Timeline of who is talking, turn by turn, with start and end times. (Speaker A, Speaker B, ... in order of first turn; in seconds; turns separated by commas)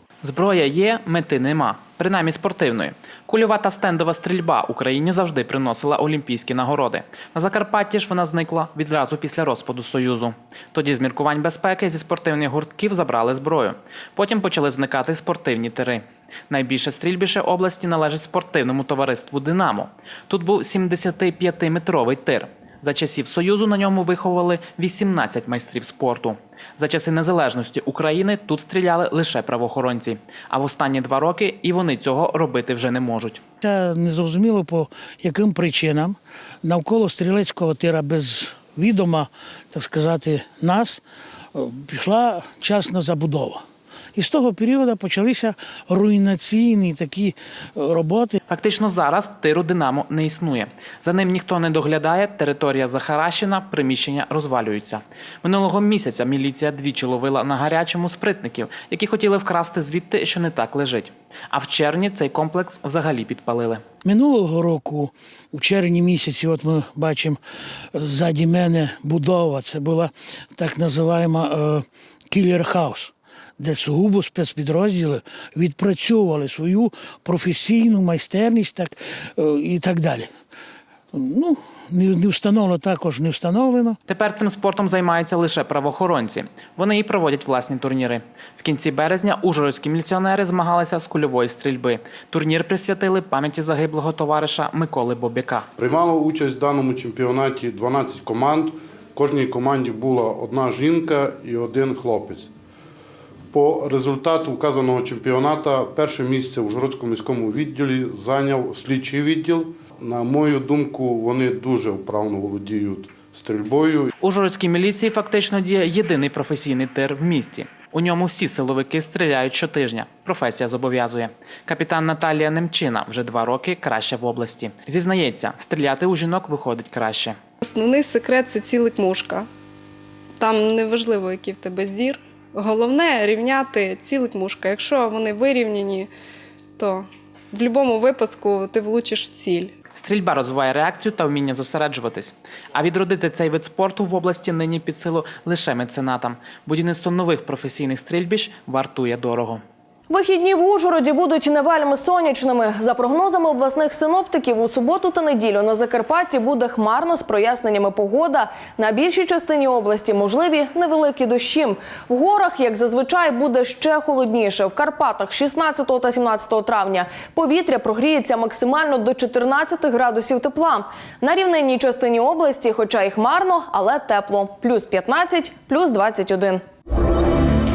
Speaker A: 0.2-33.4, Speaker B: 33.6-41.0, Speaker B: 41.5-43.6, Speaker B: 44.1-48.4, Speaker A: 48.5-63.8, Speaker B: 64.0-67.4, Speaker B: 68.0-80.3, Speaker B: 81.1-84.0, Speaker A: 84.1-95.7, Speaker C: 95.8-102.5, Speaker C: 103.5-114.1, Speaker A: 114.2-127.4, Speaker D: 127.6-129.5, Speaker D: 130.4-136.1, Speaker D: 136.8-139.7, Speaker A: 139.9-149.6, Speaker E: 150.1-176.6